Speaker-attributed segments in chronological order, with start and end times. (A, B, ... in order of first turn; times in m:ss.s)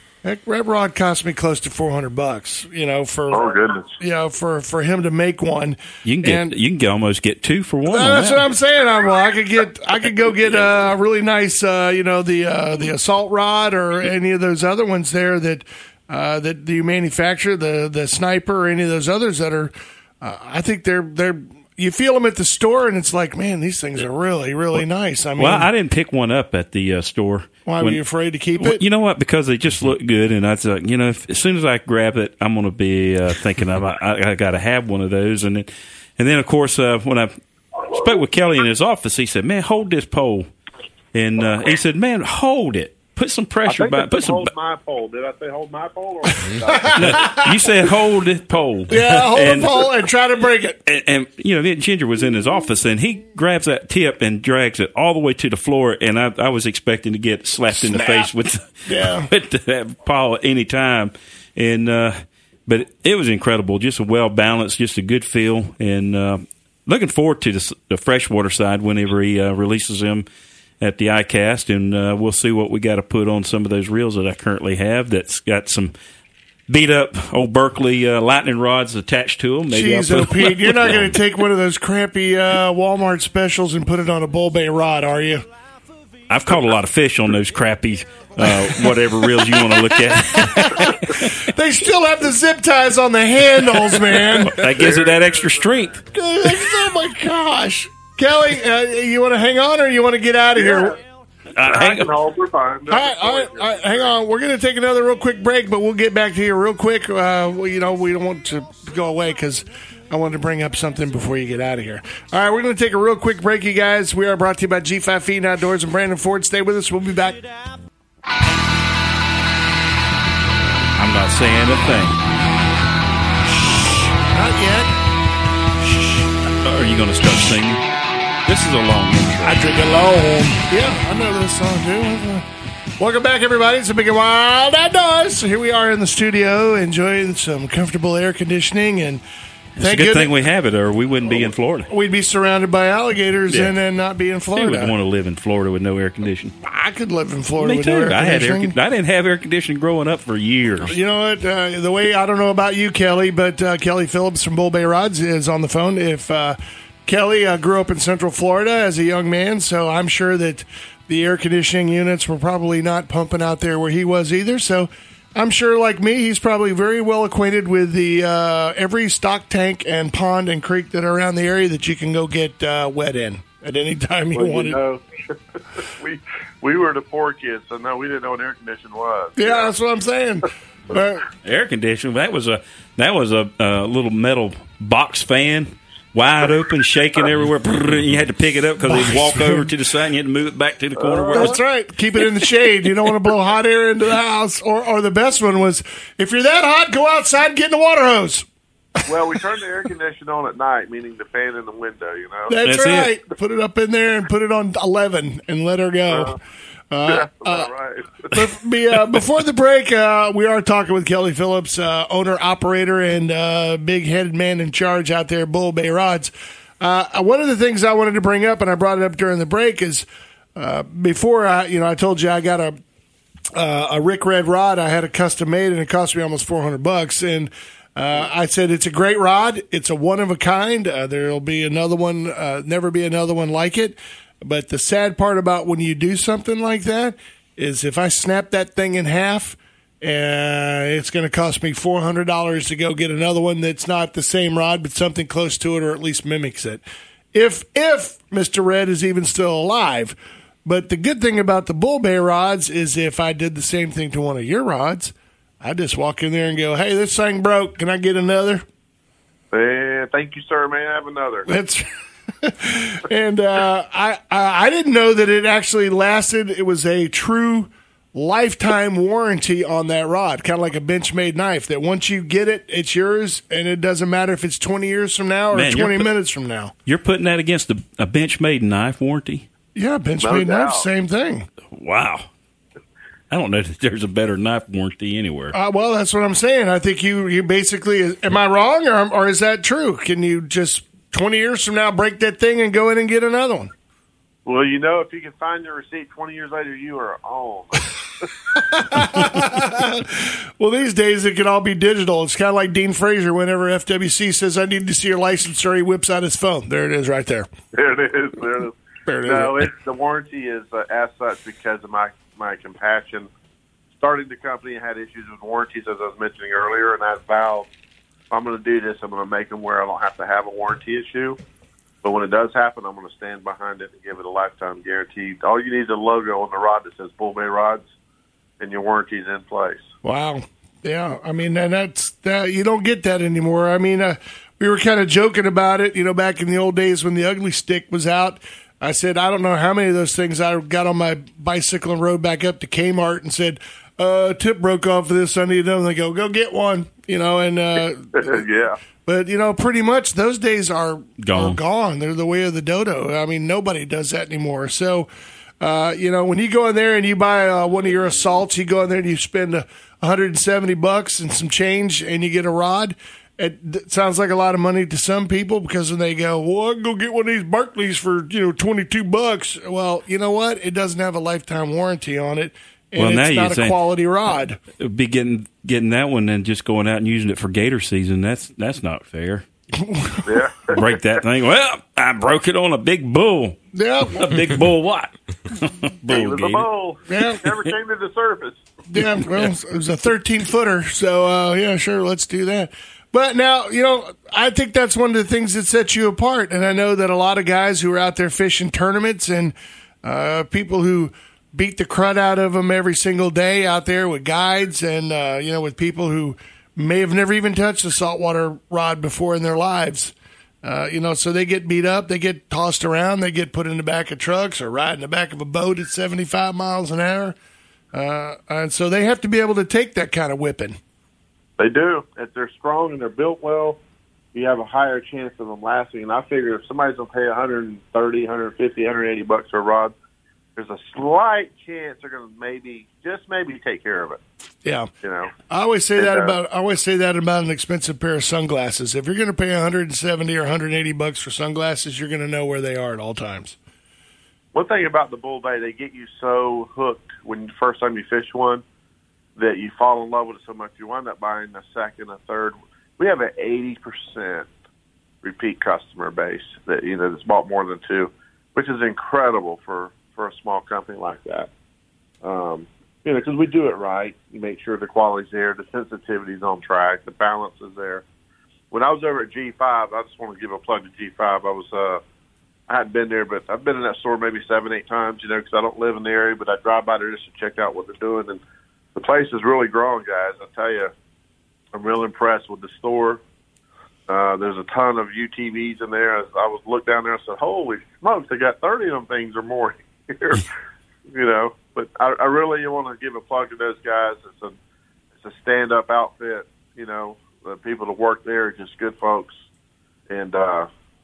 0:00.2-0:06.5 A
0:03.3-0:04.0 B
0:06.0-0:08.4 C
0:07.9-0:25.7 A
0:25.4-0:28.0 C
0:27.6-0:28.8 A
0:28.6-0:40.5 C
0:41.1-0:44.5 C
0:43.6-0:47.4 B
0:46.9-0:49.8 C
0:48.9-0:50.8 A
0:50.8-1:10.2 C
0:57.7-0:58.3 A
0:58.8-0:59.3 A
1:10.8-1:15.9 C
1:16.7-1:21.2 C
1:19.7-1:25.4 A
1:26.3-1:31.3 C
1:28.5-1:28.9 A
1:29.4-1:34.6 A
1:34.4-1:35.6 B
1:34.4-1:36.0 C
1:36.1-1:41.0 A
1:40.5-1:41.0 B
1:41.5-1:42.1 C
1:41.6-1:44.1 B
1:42.9-1:57.4 A
2:01.0-2:02.2 C
2:04.2-2:04.9 A
2:06.6-2:07.8 C
2:08.4-2:09.6 C
2:09.4-2:12.4 A
2:13.0-2:19.2 A
2:19.8-2:21.9 C
2:19.8-2:20.3 A
2:21.9-2:24.9 A
2:23.5-2:23.8 C
2:24.5-2:26.5 C
2:26.6-2:28.7 A
2:27.6-2:30.9 C
2:30.8-2:54.8 A
2:54.3-2:59.7 B
2:59.4-3:01.2 A
3:01.4-3:11.6 C
3:08.9-3:09.7 A
3:11.1-3:11.6 B
3:11.3-3:18.4 A
3:19.0-3:22.5 B
3:22.5-3:26.4 A
3:22.6-3:23.1 C
3:26.1-3:26.4 B
3:26.9-3:27.7 A
3:27.0-3:28.4 B
3:28.3-3:42.8 A
3:43.5-4:06.8 A
4:07.3-4:18.6 A
4:19.5-4:21.5 B
4:21.5-4:21.9 A
4:22.4-4:36.7 A
4:35.5-4:36.1 C
4:36.8-4:39.5 C
4:39.7-4:41.5 A
4:40.2-4:40.9 B
4:41.7-4:42.3 C
4:43.3-4:45.6 C
4:45.5-4:53.7 A
4:54.4-4:58.3 B
4:58.5-5:07.5 A
5:07.7-5:13.3 B
5:09.1-5:09.6 A
5:13.9-5:17.7 B
5:18.3-5:21.4 B
5:22.0-5:27.8 B
5:28.6-5:29.9 B
5:30.0-5:48.4 A
5:48.2-5:48.8 B
5:49.0-5:55.1 A
5:51.2-5:51.6 C
5:55.6-6:14.6 A
6:13.0-6:13.8 C
6:14.8-6:19.4 C
6:19.8-6:20.4 A
6:20.2-6:20.8 B
6:20.7-6:23.6 C
6:23.7-6:24.4 A
6:24.1-6:26.6 C
6:26.1-6:28.7 B
6:27.1-6:27.4 A
6:28.9-6:57.3 A
6:57.9-7:00.8 A
7:01.6-7:03.8 B
7:04.3-7:09.9 B
7:10.6-7:14.2 B
7:15.0-7:15.3 B
7:15.5-7:23.6 A
7:16.0-7:16.4 B
7:24.5-7:28.6 B
7:29.4-7:34.5 B
7:35.2-7:41.5 B
7:42.2-7:48.0 B
7:48.7-7:52.0 B
7:52.7-7:58.4 B
7:58.9-8:00.9 B
8:01.7-8:03.2 B
8:04.1-8:10.5 B
8:11.1-8:14.5 B
8:15.2-8:19.4 B
8:20.1-8:20.7 B